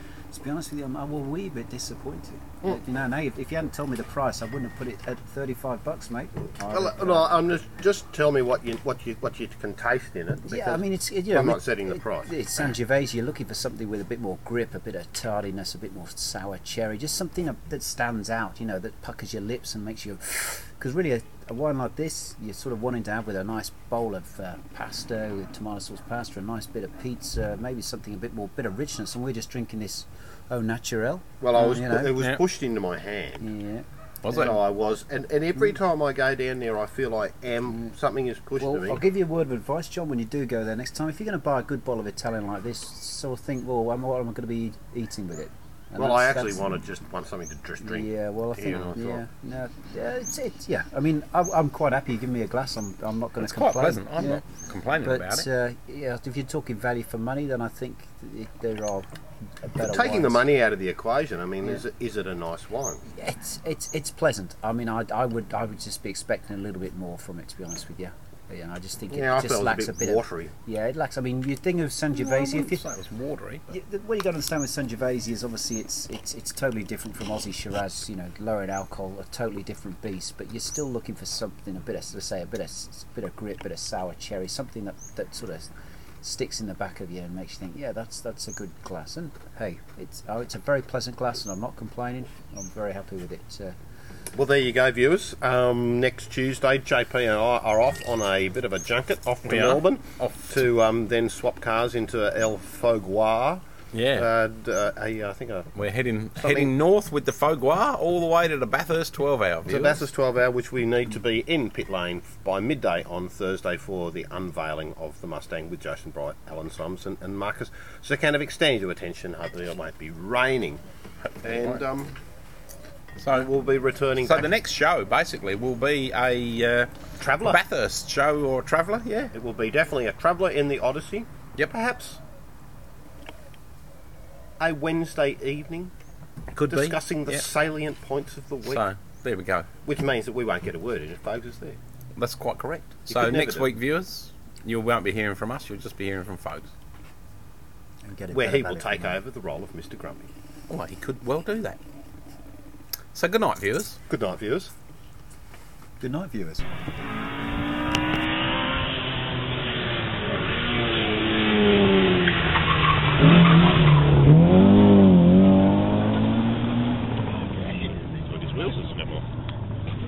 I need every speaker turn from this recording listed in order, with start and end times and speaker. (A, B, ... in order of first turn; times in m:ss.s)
0:00.3-0:07.4 A
0:06.7-0:12.6 B
0:10.5-0:32.2 A
0:31.4-0:33.5 B
0:32.1-0:32.4 C
0:33.4-0:34.6 A
0:34.2-0:34.6 C
0:34.3-0:39.0 B
0:38.6-0:46.6 A
0:46.0-0:49.2 B
0:47.8-0:54.4 A
0:53.4-0:55.5 C
0:55.0-0:59.1 A
0:59.6-1:00.4 A
0:59.8-1:03.0 B
1:03.1-1:12.8 A
1:09.1-1:10.5 B
1:12.1-1:13.7 C
1:13.7-1:25.7 A
1:26.2-1:33.7 A
1:34.3-1:45.7 B
1:39.4-1:40.6 C
1:43.9-1:44.3 C
1:45.7-1:50.0 C
1:46.4-1:46.7 B
1:49.7-2:00.8 B
2:01.4-2:02.2 B
2:01.5-2:01.8 C
2:03.2-2:03.5 C
2:03.3-2:04.5 B
2:04.2-2:09.3 C
2:07.2-2:07.6 B
2:09.3-2:12.2 B
2:14.6-2:15.9 B
2:16.5-2:17.4 C
2:16.6-2:18.8 B
2:18.6-2:19.7 C
2:19.8-2:21.8 B
2:22.1-2:26.7 C
2:23.1-2:23.7 B
2:28.0-2:29.2 A
2:28.3-2:30.3 B
2:30.7-2:31.8 C
2:33.1-2:34.0 C
2:34.1-2:34.7 B
2:36.0-2:37.3 A
2:47.6-2:49.2 B